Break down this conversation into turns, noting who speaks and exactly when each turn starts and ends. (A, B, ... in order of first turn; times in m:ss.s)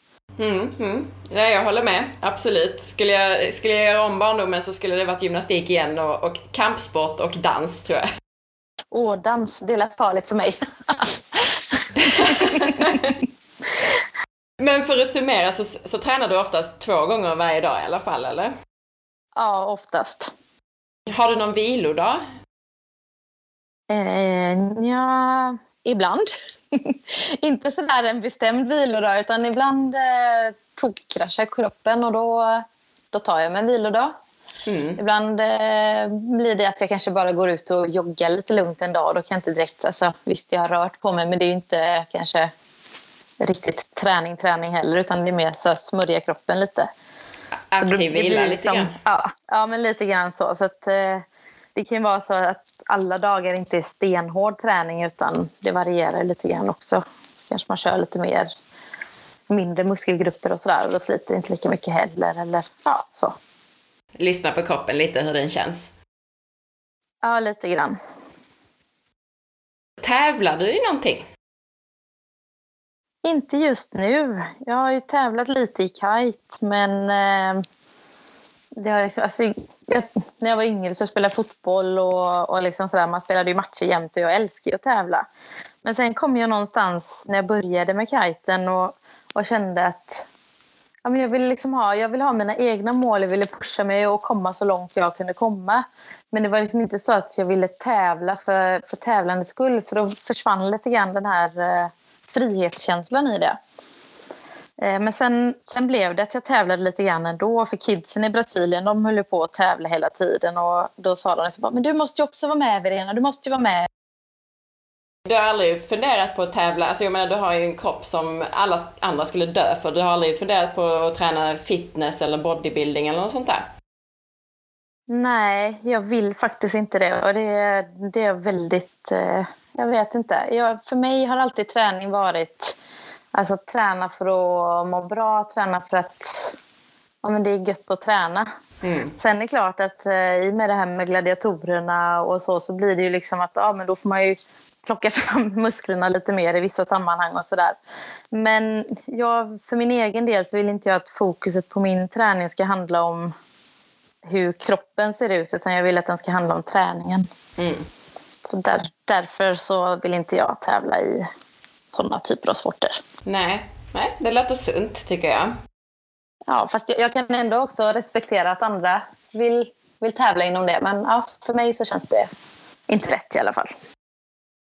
0:00.4-0:08.1 A
0:08.9-0:13.0 B
0:12.0-0:13.2 A
0:14.6-0:18.5 A
0:19.4-0:20.3 B
0:21.1-0:22.2 A
0:23.9-0:34.1 B
0:34.7-0:35.0 A
0:35.0-0:42.5 B
0:43.4-0:46.9 B
0:47.5-0:48.9 A
0:47.8-0:58.5 B
0:59.5-1:03.3 B
1:04.2-1:05.9 A
1:07.2-1:08.0 B
1:10.0-1:11.2 A
1:13.2-1:17.6 B
1:18.8-1:25.3 B
1:25.8-1:30.3 B
1:31.0-1:43.6 B
1:44.8-1:53.9 B
1:55.2-2:03.6 A
2:05.1-2:12.8 B
2:13.3-2:16.6 B
2:17.2-2:18.5 B
2:18.8-2:19.2 A
2:19.2-2:27.8 B
2:28.3-2:33.3 B
2:34.2-2:37.2 B
2:37.6-2:37.9 A
2:38.4-2:41.2 B
2:41.9-2:42.9 B
2:43.2-2:45.5 A
2:46.5-2:52.3 B
2:52.9-2:53.7 B